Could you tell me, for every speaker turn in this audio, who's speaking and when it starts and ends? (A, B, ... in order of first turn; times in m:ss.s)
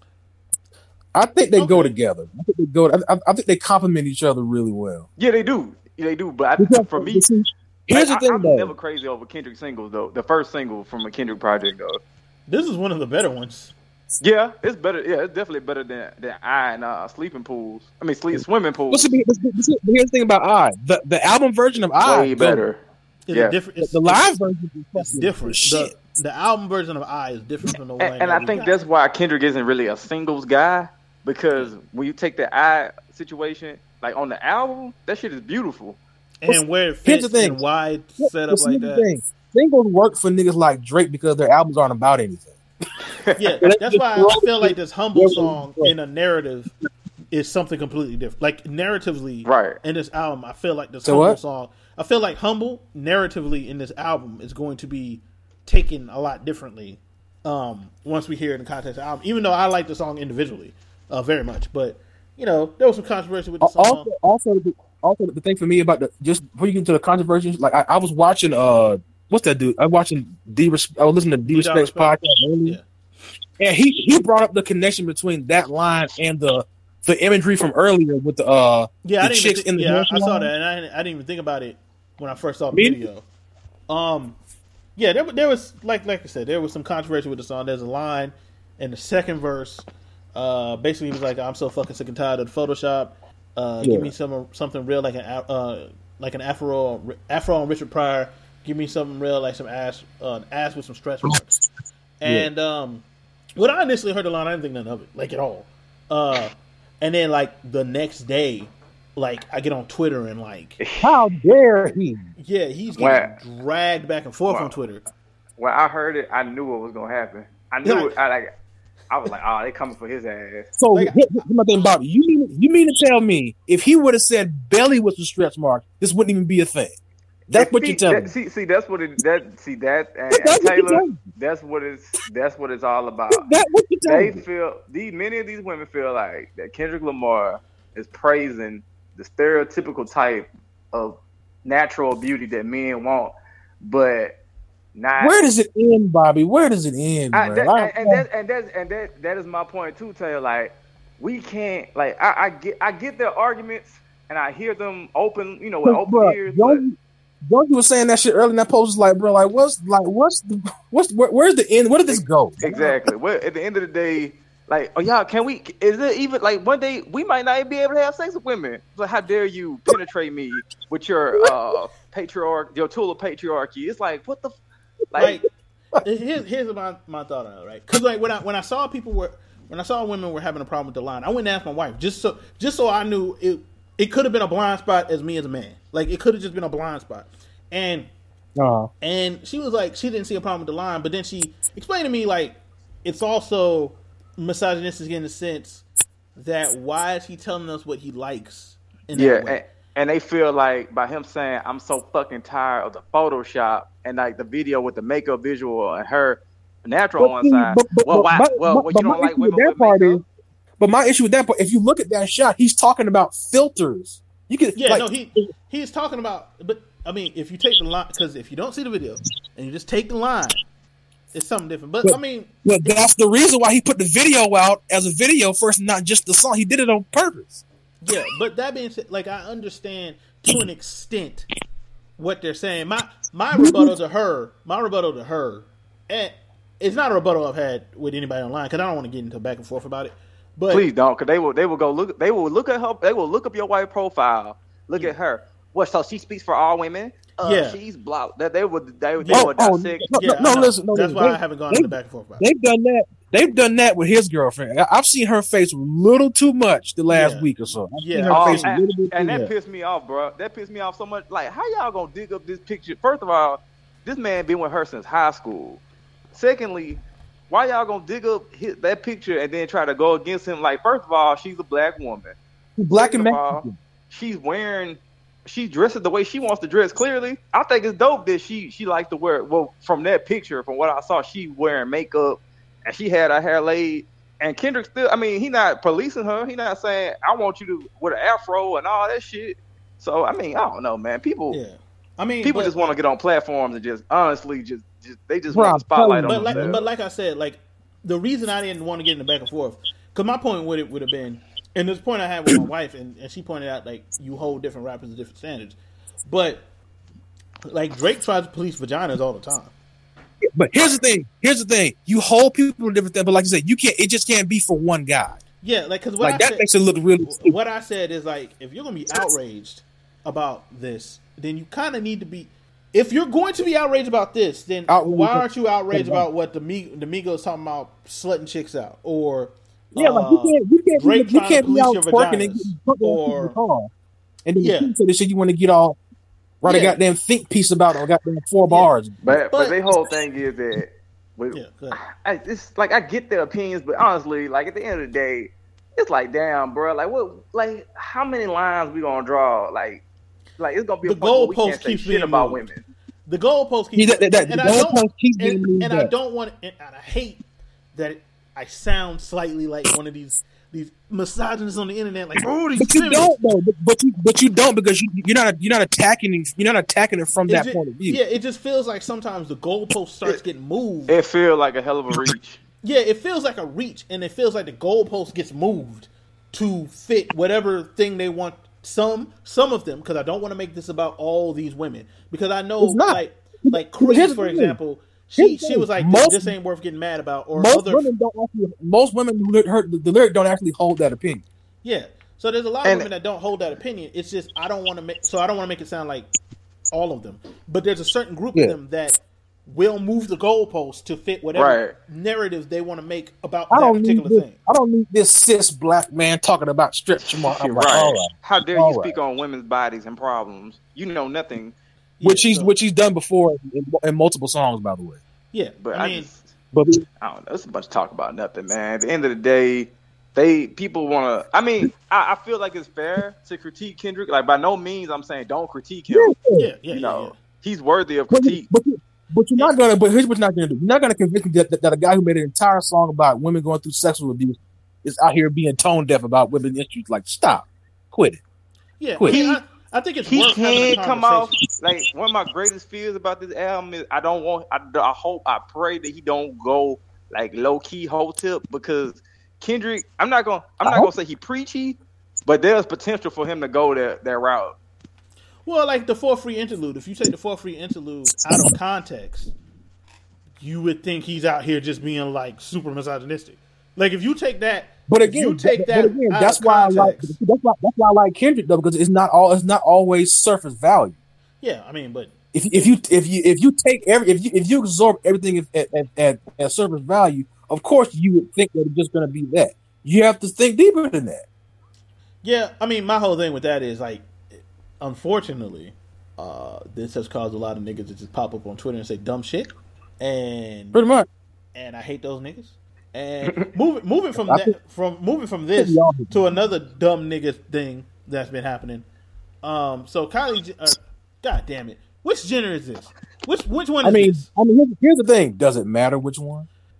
0:01.1-0:05.1 A
0:01.6-0:02.0 B
0:05.2-0:07.2 C
0:06.6-0:08.7 A
0:07.9-0:12.0 C
0:12.5-0:13.7 B
0:14.2-0:19.1 C
0:18.3-0:22.7 A
0:22.0-0:22.8 C
0:23.3-0:24.4 B
0:23.8-0:25.9 A
0:25.0-0:28.7 B
0:28.0-0:36.0 C
0:36.4-0:39.1 B
0:36.5-0:37.6 A
0:38.2-0:42.6 A
0:43.2-0:43.6 C
0:43.4-0:46.7 B
0:43.6-0:45.9 A
0:47.3-1:04.1 B
0:49.4-0:49.8 C
0:51.0-0:51.4 A
1:03.6-1:12.8 A
1:11.5-1:12.8 B
1:13.6-1:20.5 A
1:19.0-1:23.2 B
1:22.7-1:23.0 A
1:23.9-1:24.4 B
1:25.0-1:41.6 B
1:33.8-1:34.1 A
1:42.2-1:43.0 B
1:43.6-1:50.8 B
1:50.8-1:51.1 C
1:51.0-1:52.3 A
1:52.4-1:55.0 B
1:53.0-1:53.3 C
1:54.5-1:54.8 C
1:55.6-1:58.5 C
1:57.8-1:58.1 B
1:59.1-2:00.7 C
2:00.8-2:07.0 A
2:00.9-2:01.5 B
2:07.5-2:08.3 A
2:07.5-2:13.5 C
2:10.3-2:11.2 A
2:13.3-2:14.4 A
2:14.1-2:24.3 C
2:25.0-2:25.4 C
2:25.2-2:28.2 A
2:27.3-2:36.8 C
2:35.8-2:43.0 A
2:42.1-2:54.6 C
2:55.1-2:55.4 C
2:55.2-2:55.5 B
2:56.0-3:08.1 B
3:08.6-3:08.9 A
3:09.0-3:15.8 B
3:16.4-3:19.6 B
3:19.1-3:30.2 C
3:27.2-3:30.2 A
3:30.8-3:35.5 A
3:34.8-3:40.6 B
3:41.3-3:43.0 B
3:42.0-3:47.6 A
3:48.0-3:51.5 B
3:52.2-4:00.9 B
3:53.5-3:54.0 A
4:00.7-4:10.4 C
4:07.4-4:07.8 B
4:09.2-4:09.6 B
4:09.3-4:19.2 A
4:10.1-4:12.5 B
4:17.1-4:18.7 B
4:18.3-4:25.8 C
4:19.2-4:19.5 B
4:26.3-4:32.4 C
4:32.8-4:33.8 A
4:33.0-4:51.6 C
4:51.5-4:52.7 B
4:52.4-4:56.8 C
4:55.5-4:56.7 A
4:56.2-5:06.6 B
5:07.7-5:09.7 B
5:10.4-5:15.4 A
5:15.6-5:16.7 B
5:16.2-5:17.6 A
5:17.2-5:33.6 B
5:24.9-5:26.3 A
5:29.9-5:33.9 A
5:34.4-5:36.0 A
5:34.6-5:34.9 B
5:36.6-5:39.2 A
5:36.6-5:37.0 B
5:38.7-5:39.8 B
5:39.2-5:50.0 C
5:41.5-5:42.0 B
5:50.6-5:52.9 C
5:51.0-5:52.7 B
5:53.3-6:03.3 B
5:54.0-5:56.1 A
6:02.8-6:08.2 A
6:07.5-6:11.1 B
6:11.1-6:12.6 C
6:12.8-6:28.1 B
6:22.8-6:24.8 A
6:25.4-6:26.5 A
6:27.5-6:31.4 A
6:31.8-6:36.3 B
6:32.8-6:33.1 C
6:36.9-6:44.6 B
6:41.6-6:42.0 C
6:43.7-6:49.2 A
6:47.2-6:51.8 C
6:52.2-6:52.7 B
6:52.2-6:55.2 A
6:55.5-6:56.3 B
6:55.8-6:56.5 C
6:56.7-6:57.0 A
6:57.2-7:06.4 C
7:06.1-7:06.7 A
7:06.6-7:07.4 B
7:06.9-7:08.6 C
7:08.3-7:18.4 A
7:19.0-7:21.5 B
7:19.3-7:19.6 C
7:20.3-7:34.8 C
7:30.8-7:31.1 A
7:35.7-7:39.5 B
7:40.6-7:47.4 B
7:45.1-7:51.2 A
7:51.6-7:52.9 B
7:52.5-8:01.4 A
8:02.4-8:04.3 B
8:05.0-8:11.0 B
8:10.9-8:11.3 A
8:11.8-8:19.0 B
8:14.4-8:14.7 A
8:15.8-8:16.6 A
8:19.6-8:24.5 B
8:24.0-8:26.7 A